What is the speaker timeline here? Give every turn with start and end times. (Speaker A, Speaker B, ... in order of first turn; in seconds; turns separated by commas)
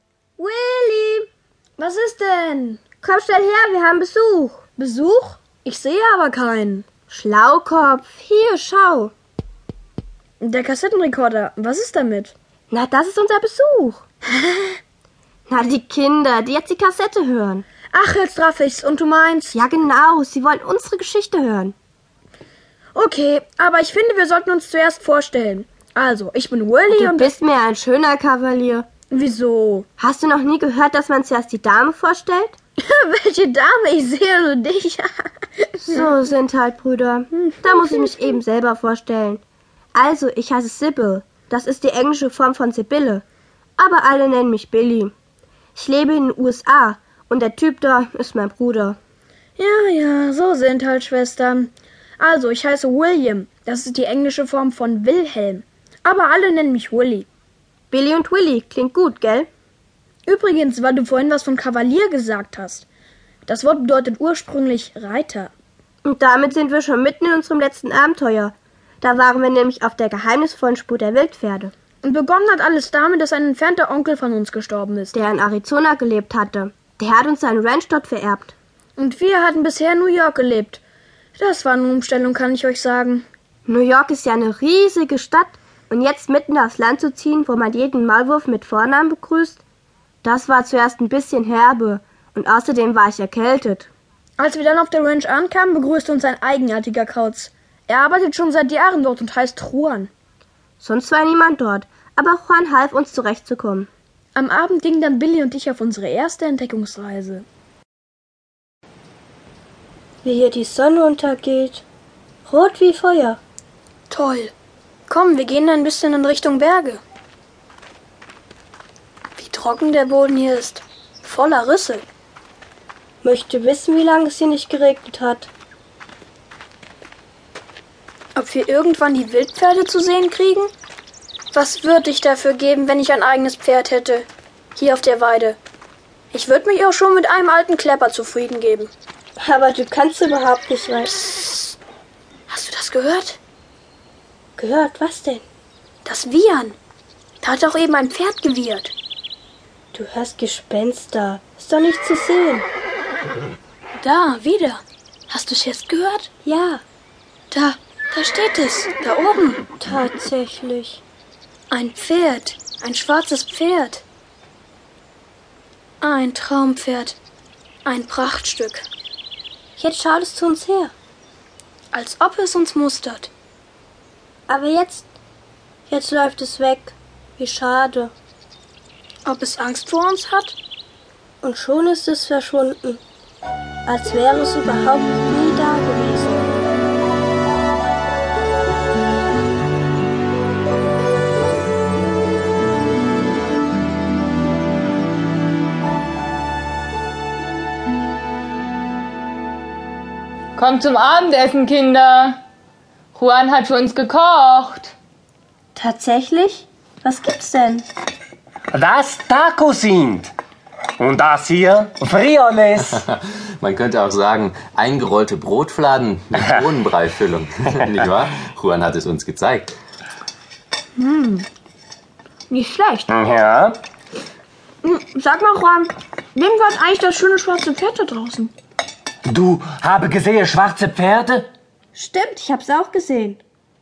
Speaker A: 0.4-1.3, Speaker B: 1.8-2.8, Speaker A: 3.0-4.6, Speaker B: 4.8-6.8, Speaker A: 7.1-9.1, Speaker B: 10.4-12.3, Speaker A: 12.7-14.0, Speaker B: 14.4-14.8, Speaker A: 15.5-17.6, Speaker B: 17.9-19.6, Speaker A: 19.5-21.7, Speaker B: 22.9-27.3, Speaker A: 26.9-28.9, Speaker B: 29.1-29.9, Speaker A: 30.0-32.5, Speaker B: 32.8-36.0, Speaker A: 35.8-39.4, Speaker B: 37.4-38.3, Speaker A: 39.9-43.2, Speaker A: 43.8-45.1, Speaker A: 45.7-49.0, Speaker B: 49.6-57.3, Speaker A: 57.9-59.5, Speaker B: 60.2-62.9, Speaker B: 63.5-65.5, Speaker A: 66.0-71.7, Speaker B: 72.0-75.2, Speaker A: 75.1-78.5, Speaker B: 79.0-80.8, Speaker B: 81.3-83.2, Speaker A: 83.7-89.6, Speaker A: 90.2-93.9, Speaker B: 94.4-100.1, Speaker A: 100.8-103.9, Speaker B: 104.3-107.5, Speaker A: 110.2-111.8, Speaker A: 112.5-113.4, Speaker B: 114.1-114.5, Speaker B: 115.1-117.0, Speaker B: 119.4-122.0, Speaker A: 123.2-125.5, Speaker B: 128.3-130.7, Speaker B: 131.5-135.6, Speaker B: 136.3-138.9, Speaker A: 139.4-141.4, Speaker B: 142.5-143.4, Speaker A: 144.6-145.4, Speaker B: 146.0-146.8, Speaker B: 147.4-148.9, Speaker A: 149.9-152.7, Speaker B: 154.0-156.3, Speaker A: 156.4-156.8, Speaker B: 157.5-159.6, Speaker A: 159.8-161.0, Speaker B: 161.7-164.0, Speaker B: 166.0-167.2, Speaker B: 167.8-168.8, Speaker A: 169.8-170.9, Speaker B: 171.9-173.3, Speaker A: 174.5-175.1, Speaker A: 175.9-178.1, Speaker B: 179.2-180.6, Speaker A: 181.4-183.0, Speaker A: 183.8-186.6, Speaker C: 200.6-202.4, Speaker C: 203.1-204.9, Speaker A: 205.7-207.8, Speaker D: 208.7-210.3, Speaker D: 211.0-213.0, Speaker E: 212.9-219.7, Speaker B: 221.0-221.4, Speaker B: 222.5-223.1, Speaker D: 223.1-223.8, Speaker B: 224.8-228.5, Speaker D: 229.2-231.5, Speaker A: 231.9-233.4